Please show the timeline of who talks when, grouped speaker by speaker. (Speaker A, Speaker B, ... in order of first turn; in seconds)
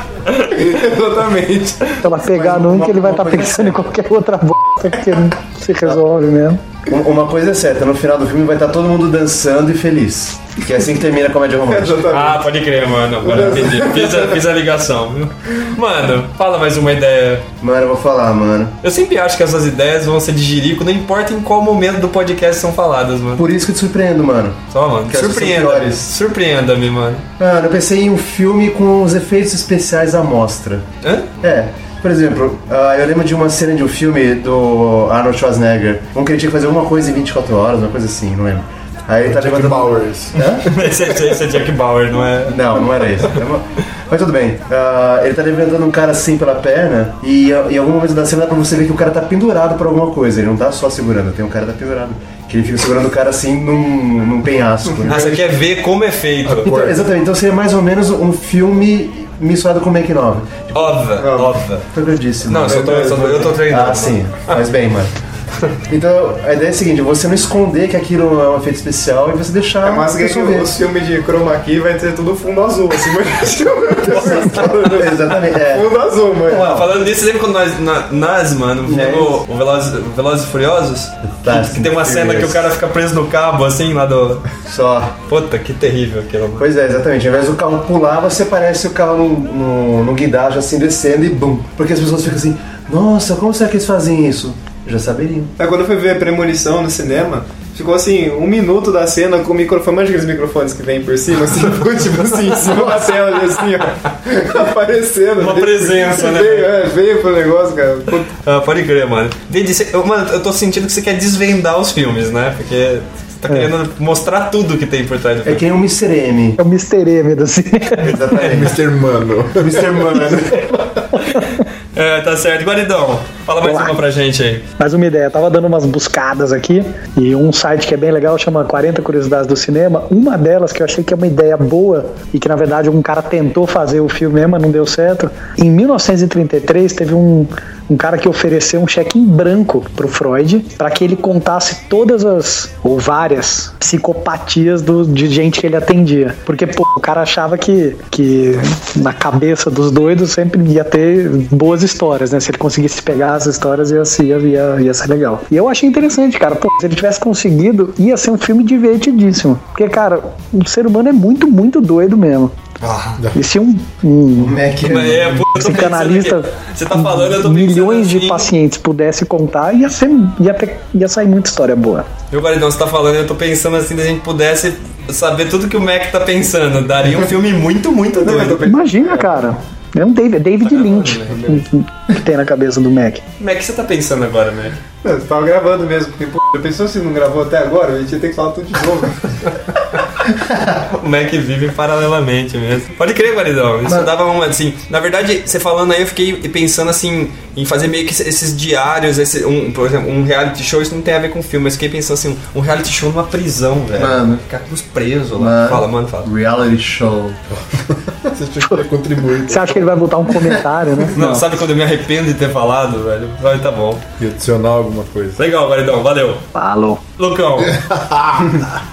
Speaker A: 0.5-2.0, 11.7-12.5, 13.2-14.4, 61.2-61.5, 62.7-63.3, 69.8-76.8, 95.6-108.3, 178.2-179.4, 181.3-181.6, 185.0-189.3
Speaker B: 2.0-6.6, 116.6-118.2, 123.6-124.0, 124.8-162.5, 163.3-164.6, 165.5-172.1, 178.6-183.2, 209.4-211.5, 216.5-217.0
Speaker C: 2.2-3.9, 6.9-12.1, 17.6-18.8, 23.4-26.1, 27.4-30.9, 31.4-40.6, 42.5-55.4, 56.6-61.0, 61.9-65.1, 65.9-70.7, 74.1-75.9, 78.8-79.4, 81.4-82.7, 84.7-85.2, 86.6-95.5, 115.4-116.6, 118.0-118.8, 119.6-120.8, 164.4-165.5, 204.0-204.4, 205.4-207.4
Speaker D: 12.1-17.5, 18.8-23.4, 24.7-27.2, 31.0-31.3, 40.6-42.6, 55.1-56.8, 60.7-61.9, 62.5-64.6, 76.6-84.4, 85.3-86.7, 105.4-106.7, 108.4-115.6, 121.3-124.7, 162.8-163.2, 164.8-168.5, 172.3-178.6, 180.7-181.3, 183.4-184.8, 190.9-206.3, 211.1-214.0, 215.4-216.4, 217.2-217.8
Speaker E: 39.2-40.4, 56.5-57.0, 118.3-119.9, 163.2-163.4, 208.2-209.9, 214.2-215.4, 217.7-218.7